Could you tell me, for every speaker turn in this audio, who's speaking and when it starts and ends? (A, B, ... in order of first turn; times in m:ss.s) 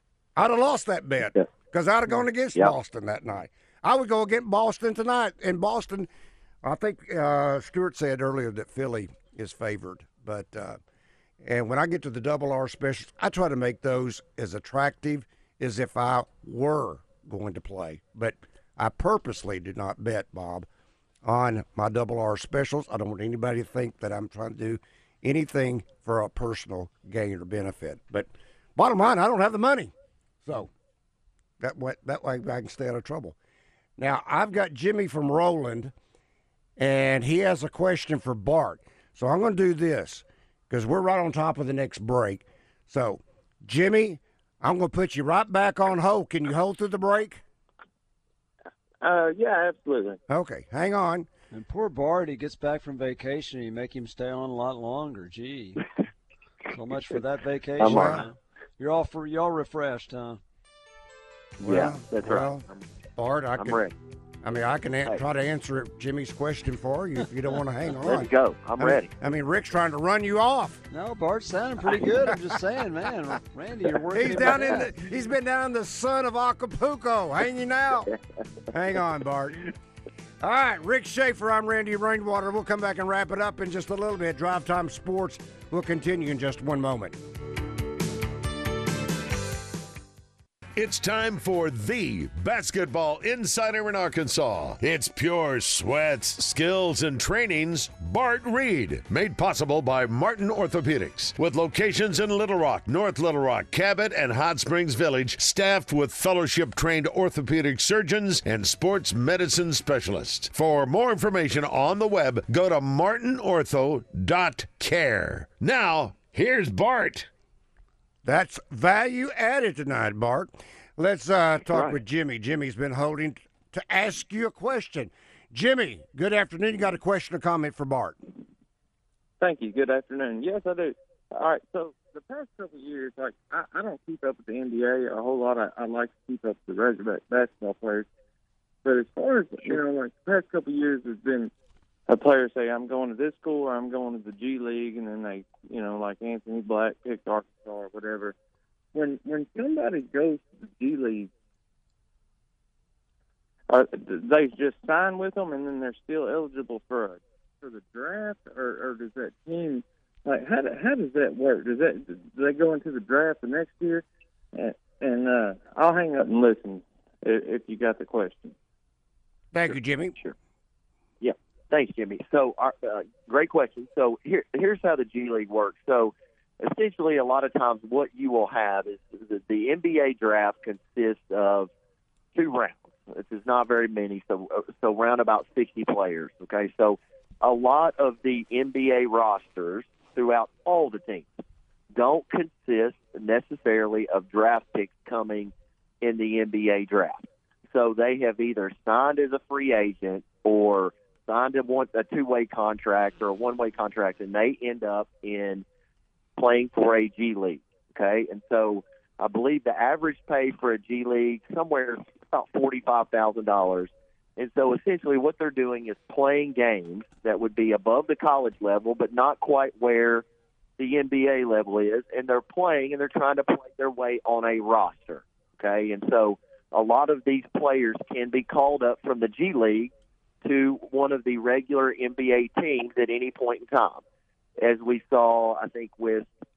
0:00.4-0:06.1 A
0:06.6-0:10.8 A
0:11.4-0:20.7 A
0:21.2-0:29.9 A
0:30.4-0:30.7 A
0:31.6-0:33.4 A
0:34.0-0:35.9 A
0:36.8-0:47.4 A
0:49.0-0:50.2 B
0:50.3-0:51.3 A
0:51.5-0:55.8 C
0:56.7-1:00.4 C
0:57.8-0:58.2 D
0:57.8-0:58.2 A
1:01.6-1:02.8 D
1:01.6-1:03.8 A
1:03.6-1:03.9 D
1:04.4-1:10.8 A
1:08.0-1:09.1 D
1:10.9-1:14.9 C
1:14.1-1:18.1 A
1:18.7-1:19.7 A
1:20.4-1:27.2 A
1:30.8-1:57.3 E
1:58.2-2:08.2 A
2:09.4-2:18.0 B
2:18.8-2:21.5 B
2:22.1-2:28.4 B
2:28.9-2:31.3 B
2:33.7-2:48.5 B
2:49.5-2:50.2 A
2:51.2-3:01.7 D
3:02.3-3:11.4 D
3:12.0-3:25.6 D
3:26.4-3:40.2 D
3:40.8-3:49.9 D
3:50.4-3:54.0 D
3:54.6-3:56.3 D